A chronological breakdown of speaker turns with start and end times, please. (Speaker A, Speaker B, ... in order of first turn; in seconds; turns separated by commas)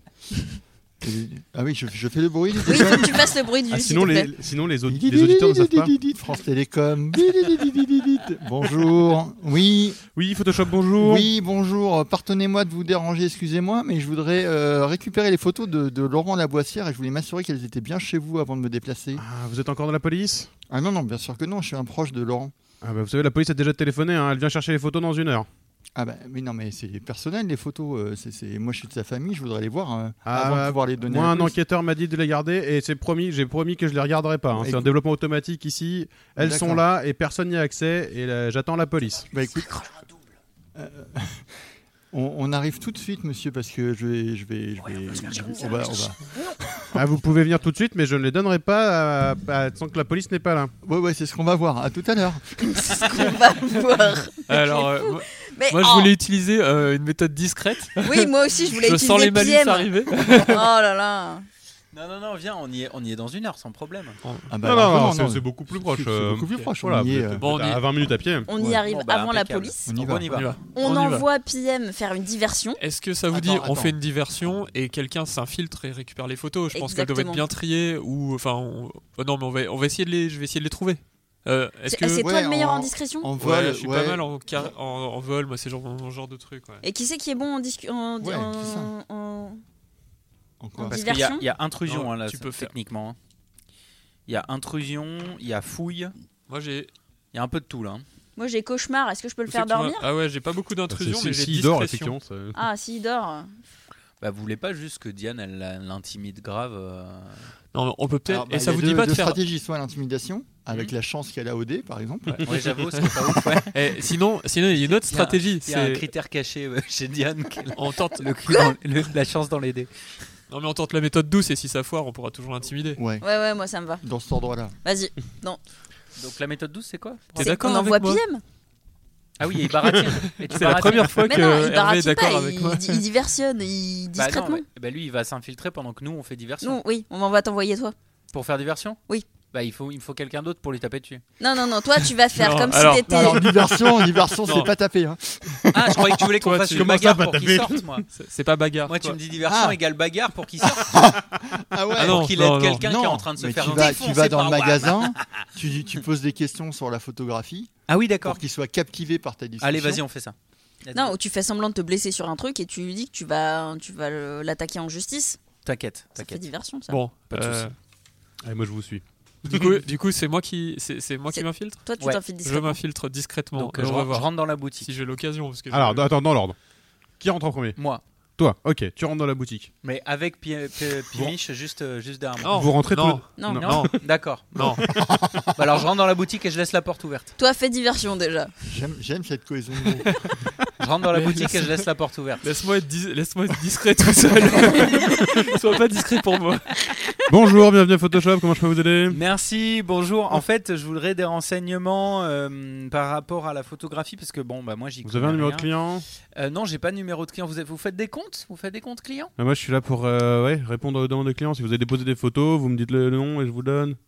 Speaker A: 1.0-3.2, Speaker B: 2.6-4.3, Speaker C: 3.7-5.9, Speaker A: 4.9-10.0, Speaker C: 10.1-11.3, Speaker A: 11.0-19.2, Speaker C: 19.1-20.5, Speaker A: 20.7-22.5, Speaker C: 22.8-25.5, Speaker A: 25.9-31.6, Speaker C: 30.2-39.3, Speaker A: 34.5-34.9, Speaker A: 36.4-36.8, Speaker A: 39.3-39.7, Speaker A: 40.7-47.0, Speaker B: 45.5-45.8, Speaker C: 46.9-50.7, Speaker A: 50.8-53.1, Speaker B: 52.7-56.1, Speaker D: 54.5-60.6, Speaker B: 58.0-61.5, Speaker E: 61.9-64.2, Speaker D: 64.2-64.5, Speaker A: 64.5-67.5, Speaker C: 64.6-68.5, Speaker D: 67.4-67.9, Speaker B: 68.5-69.9, Speaker A: 68.6-68.8, Speaker E: 68.8-70.5, Speaker A: 69.9-70.3, Speaker D: 70.3-71.2, Speaker B: 70.7-72.8, Speaker D: 72.8-82.2, Speaker A: 73.3-74.0, Speaker B: 76.7-77.4, Speaker B: 81.9-83.3, Speaker A: 82.2-84.2, Speaker D: 83.4-86.8, Speaker B: 86.8-89.6, Speaker A: 88.2-88.9, Speaker A: 90.6-91.1, Speaker B: 90.8-91.5, Speaker E: 90.9-93.2, Speaker D: 91.8-92.7, Speaker E: 94.3-96.1, Speaker D: 96.5-96.9, Speaker E: 97.3-98.0, Speaker B: 98.3-100.0, Speaker D: 99.5-102.2, Speaker C: 100.9-102.7, Speaker B: 102.5-103.5, Speaker E: 104.2-107.5, Speaker D: 107.7-109.4, Speaker A: 108.3-112.6, Speaker D: 112.3-113.2, Speaker E: 112.4-113.9, Speaker D: 113.7-116.0, Speaker E: 114.8-119.9, Speaker D: 117.7-118.4, Speaker B: 118.5-118.8, Speaker D: 120.5-123.0, Speaker A: 123.0-123.2, Speaker B: 123.2-124.0, Speaker A: 124.0-124.8, Speaker B: 124.8-125.6, Speaker E: 126.2-127.5, Speaker D: 127.3-128.2, Speaker B: 127.4-128.4, Speaker E: 129.4-131.3, Speaker D: 130.5-133.0, Speaker B: 131.3-134.6, Speaker E: 134.2-136.8, Speaker B: 136.6-137.9, Speaker E: 138.3-139.0, Speaker E: 139.5-141.2, Speaker B: 141.4-143.5, Speaker D: 142.3-144.7, Speaker A: 143.1-146.2, Speaker E: 145.7-148.1, Speaker D: 146.4-146.9, Speaker C: 146.7-148.0, Speaker D: 148.1-149.2, Speaker E: 148.8-151.0, Speaker A: 149.4-149.8, Speaker A: 150.9-157.7, Speaker D: 151.9-152.8, Speaker E: 152.0-155.4, Speaker D: 153.6-154.1, Speaker E: 157.9-158.4, Speaker A: 158.2-160.0, Speaker E: 159.6-161.1, Speaker B: 160.9-165.4, Speaker E: 165.6-166.4, Speaker B: 166.2-167.0, Speaker D: 166.9-167.7, Speaker E: 167.3-167.7, Speaker C: 168.4-169.8, Speaker D: 169.4-171.8, Speaker B: 171.3-172.8, Speaker D: 172.3-176.1, Speaker E: 173.6-174.9, Speaker C: 175.7-176.6, Speaker C: 177.2-177.8, Speaker E: 177.8-178.0, Speaker C: 178.4-179.7, Speaker E: 179.8-182.6, Speaker D: 182.4-184.8, Speaker C: 182.4-183.9, Speaker B: 183.4-183.6, Speaker E: 183.4-184.8, Speaker E: 185.5-187.3, Speaker B: 187.4-188.5, Speaker A: 188.7-190.1, Speaker D: 190.0-190.4, Speaker E: 190.8-192.4, Speaker D: 191.1-191.8, Speaker D: 192.4-196.8, Speaker C: 197.3-199.2, Speaker E: 199.1-205.7, Speaker C: 205.0-206.1, Speaker E: 206.3-209.3, Speaker C: 209.4-214.0